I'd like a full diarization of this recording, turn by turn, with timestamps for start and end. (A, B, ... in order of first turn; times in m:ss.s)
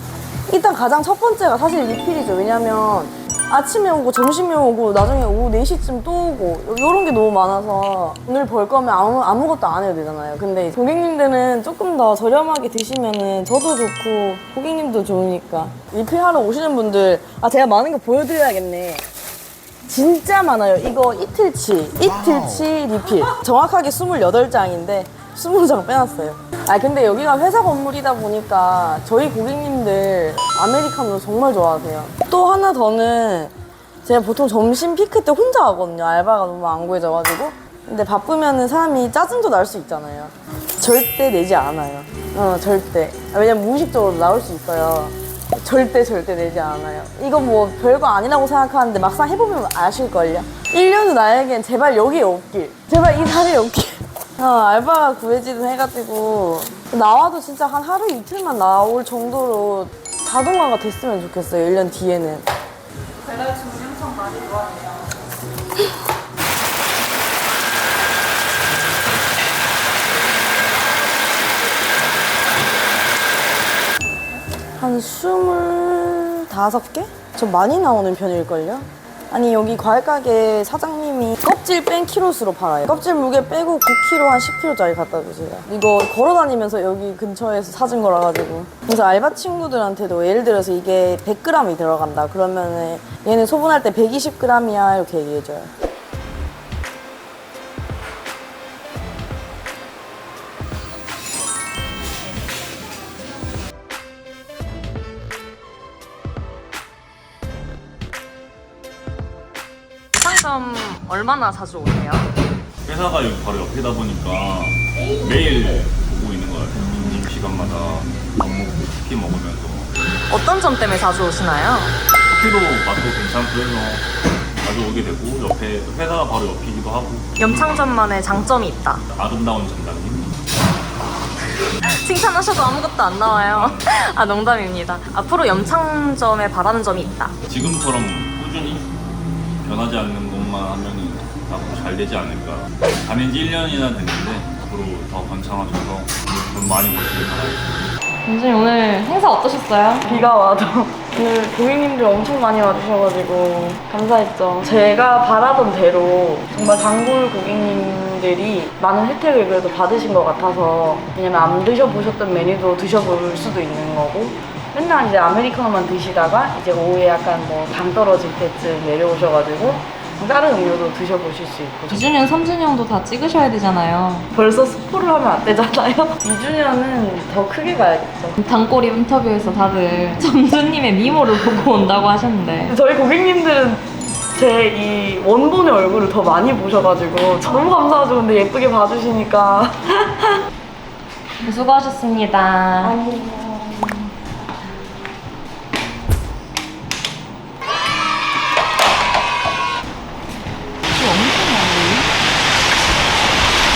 0:00.5-0:19.0 A
0:19.9-0:33.5 A
0:34.0-1:02.4 A
1:14.8-1:35.7 A
1:50.2-1:52.2 B
1:52.8-1:59.9 C
2:00.3-2:02.0 B
2:02.3-2:04.0 C
2:04.6-2:07.7 C
2:07.4-2:09.0 B
2:09.1-2:10.4 C
2:11.8-2:17.3 B
2:13.2-2:13.9 C
2:17.5-2:18.9 C
2:19.6-2:27.7 C
2:28.2-2:30.3 B
2:30.0-2:52.0 A
2:51.9-2:54.3 B
2:54.3-2:58.4 A
2:58.4-3:02.7 B
3:02.7-3:03.8 A
3:04.3-3:10.4 A
3:11.4-3:13.0 B
3:12.8-3:13.8 A
3:20.9-3:22.1 B